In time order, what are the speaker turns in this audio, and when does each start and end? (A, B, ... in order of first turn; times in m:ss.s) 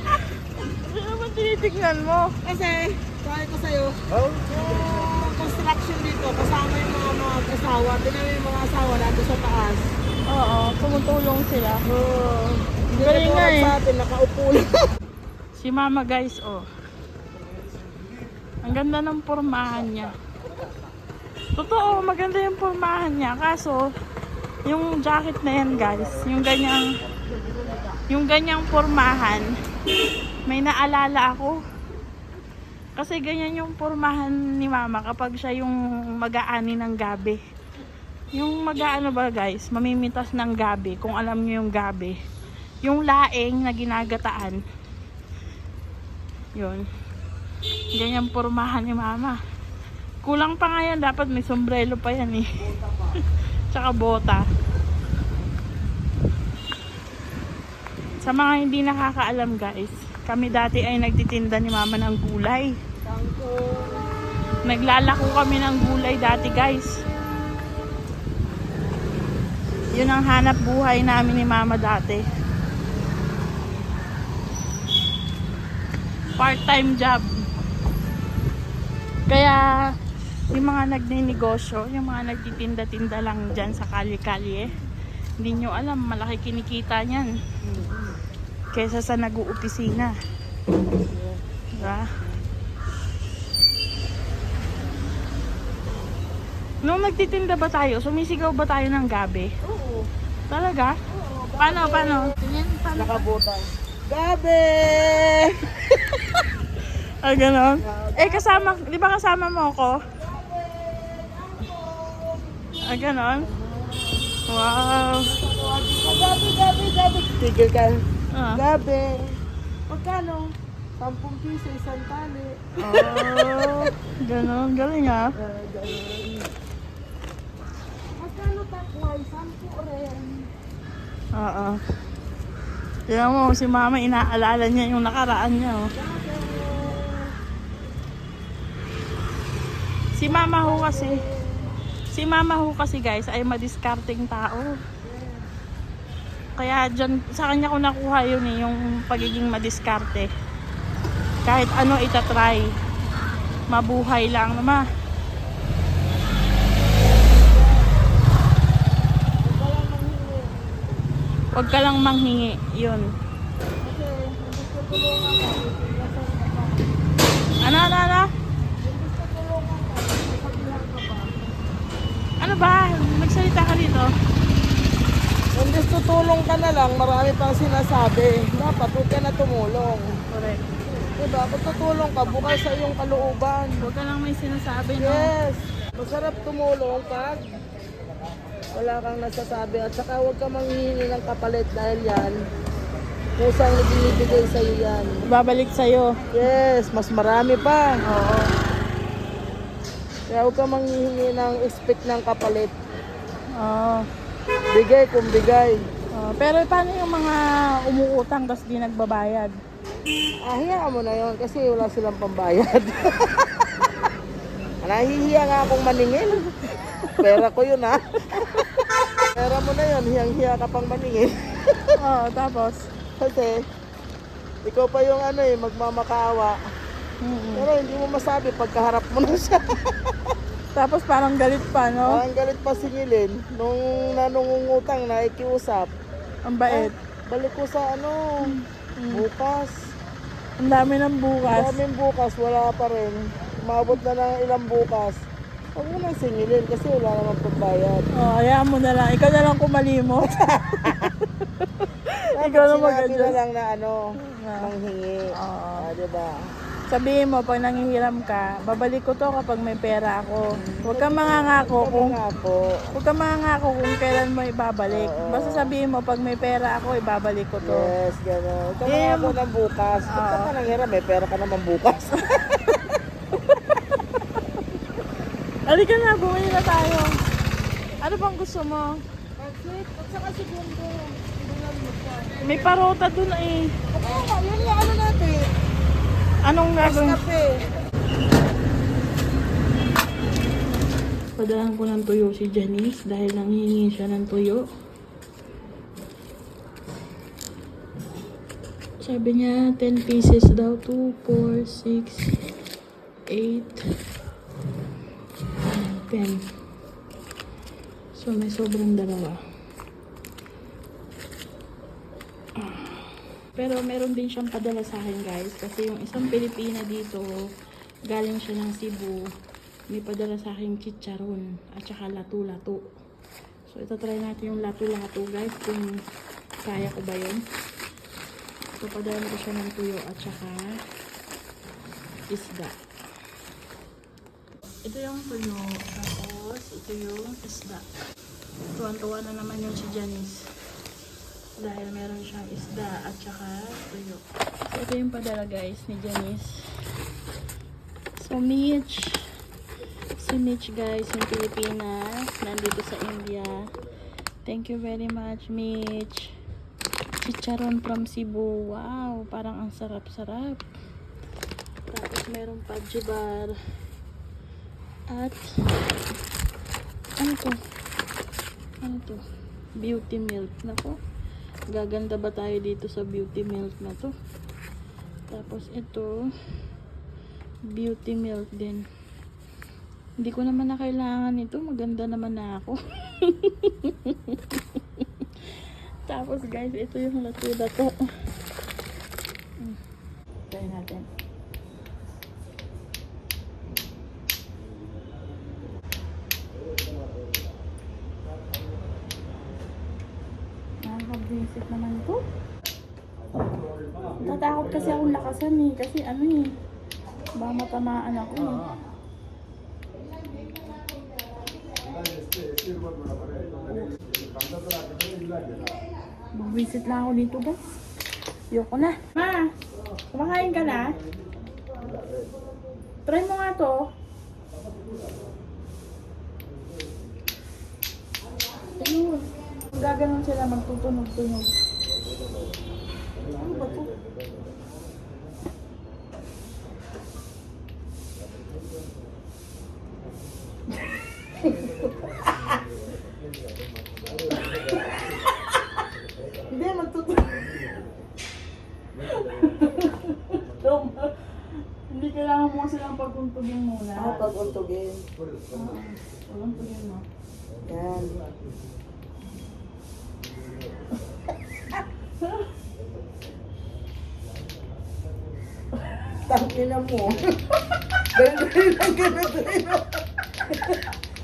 0:00.6-0:02.3 A
0:02.4-0:09.8 B
0:10.3-0:11.8 A
0:11.8-0:14.7 B
0:13.0-0:13.7 A
0:15.5-0:16.6 A
0:18.6-0:20.1 A
0:21.6-0:23.9 A
0:24.7-0:26.8 A
0:27.3-0:28.0 B
0:28.1-0:29.5 A
0:30.5-0:31.6 A
0:33.0-0:37.4 A
0:38.3-0:42.1 A
0:42.8-0:44.6 A
0:46.6-0:46.8 A
0:47.9-0:49.4 A
0:50.2-0:52.5 A
0:52.6-0:53.2 B
0:53.7-0:54.4 A
0:58.2-1:02.7 A
1:03.0-1:04.1 B
1:04.6-1:07.0 A
1:09.9-1:12.2 A
1:16.4-1:17.2 A
1:19.3-1:19.7 A
1:20.5-1:24.7 A
1:25.4-1:27.3 A
1:27.6-1:28.2 B
1:28.7-1:30.1 A
1:30.9-1:32.4 B
1:31.8-1:32.0 A
1:36.8-1:39.5 A
1:39.6-1:40.1 B
1:40.5-1:40.9 A
1:41.1-1:42.3 B
1:41.6-1:43.3 A
1:42.9-1:45.5 B
1:47.2-1:50.0 A
1:47.8-1:48.8 B
1:50.1-1:54.3 B
1:52.8-1:53.5 A
1:54.5-1:55.3 A
1:55.2-1:58.0 B
1:58.3-1:58.6 A
1:58.5-1:59.2 B
1:59.9-2:03.5 B
2:02.8-2:05.3 A
2:05.4-2:06.5 B
2:08.2-2:10.5 B
2:11.3-2:11.8 A
2:13.1-2:15.9 A
2:15.9-2:17.3 B
2:20.1-2:21.1 A
2:20.2-2:21.7 B
2:22.1-2:24.8 A
2:25.0-2:25.4 B
2:26.6-2:30.3 A
2:31.4-2:32.7 A
2:33.7-2:34.8 A
2:36.9-2:37.9 B
2:39.4-2:40.6 B
2:41.5-2:43.1 A
2:43.8-2:47.0 B
2:47.6-2:48.3 A
2:48.8-2:51.4 B
2:52.4-2:54.1 A
2:55.5-3:00.2 B
3:00.3-3:00.6 A
3:01.2-3:03.8 B
3:03.8-3:05.3 A
3:05.0-3:07.5 B
3:08.7-3:12.4 B
3:13.4-3:15.2 B
3:15.2-3:16.2 A
3:16.3-3:18.0 B
3:18.0-3:18.5 A
3:20.3-3:22.7 B
3:23.6-3:24.0 A
3:24.7-3:25.8 B
3:26.1-3:29.6 A
3:30.4-3:33.5 B
3:34.8-3:36.4 B
3:37.0-3:37.4 A
3:37.2-3:38.6 B
3:39.3-3:41.9 B
3:42.0-3:42.9 A
3:43.2-3:43.6 B
3:44.6-3:46.6 B
3:47.2-3:47.7 A
3:47.6-3:50.1 B
3:50.8-3:52.2 A
3:52.0-3:55.9 B
3:56.4-3:56.9 A
3:56.7-3:58.5 B
3:58.4-3:59.2 A
3:59.1-3:59.8 B
4:00.6-4:01.8 A
4:01.4-4:05.2 B
4:05.8-4:08.3 B
4:08.1-4:10.3 A
4:10.2-4:11.1 B
4:10.8-4:13.4 A
4:12.4-4:14.0 B
4:14.2-4:14.7 A
4:14.6-4:15.2 B
4:15.4-4:15.8 A
4:15.8-4:16.4 B
4:16.9-4:22.2 A
4:20.6-4:22.8 B
4:22.9-4:27.9 A
4:24.9-4:25.7 B
4:27.6-4:32.1 B
4:28.9-4:29.4 A
4:30.1-4:30.5 A
4:32.2-4:32.7 A
4:33.5-4:33.9 A
4:35.7-4:37.1 A
4:38.0-4:38.9 A
4:39.4-4:42.7 B
4:42.4-4:43.7 A
4:43.9-4:45.5 B
4:46.4-4:47.2 A
4:46.8-4:47.7 B
4:51.4-4:54.6 A
4:59.0-5:02.4 A
5:03.3-5:04.0 A
5:05.7-5:06.5 A
5:08.1-5:09.4 A
5:12.6-5:13.0 A
5:13.6-5:17.2 A
5:18.1-5:19.2 A
5:19.9-5:22.9 A
5:23.7-5:25.9 A
5:26.6-5:27.4 A
5:28.8-5:30.7 A
5:32.3-5:32.8 A
5:34.8-5:37.9 A
5:38.7-5:40.5 A
5:41.6-5:46.7 A
5:48.2-5:49.2 A
5:50.2-5:53.7 A
5:54.4-5:56.3 A
5:57.2-6:00.6 A
6:01.9-6:03.5 A
6:05.1-6:05.4 A
6:07.2-6:07.6 A
6:08.8-6:09.2 A
6:09.8-6:11.0 A
6:11.7-6:14.1 A
6:15.3-6:16.2 A
6:17.7-6:18.8 A
6:20.2-6:25.1 A
6:26.1-6:28.0 A
6:30.5-6:31.1 A
6:40.8-6:42.2 A
6:44.2-6:46.5 A
6:47.4-6:48.7 A
6:56.4-6:57.6 A
6:58.5-6:59.5 A
7:00.1-7:01.0 A
7:03.1-7:03.9 A
7:08.8-7:11.5 A
7:13.2-7:13.9 B
7:21.4-7:21.9 B
7:26.5-7:27.6 B
7:29.1-7:31.4 A
7:31.9-7:34.3 A
7:34.0-7:35.0 B
7:35.5-7:37.0 A
7:37.7-7:38.2 B
7:46.3-7:47.3 B
7:48.1-7:49.9 B
7:50.5-7:50.8 B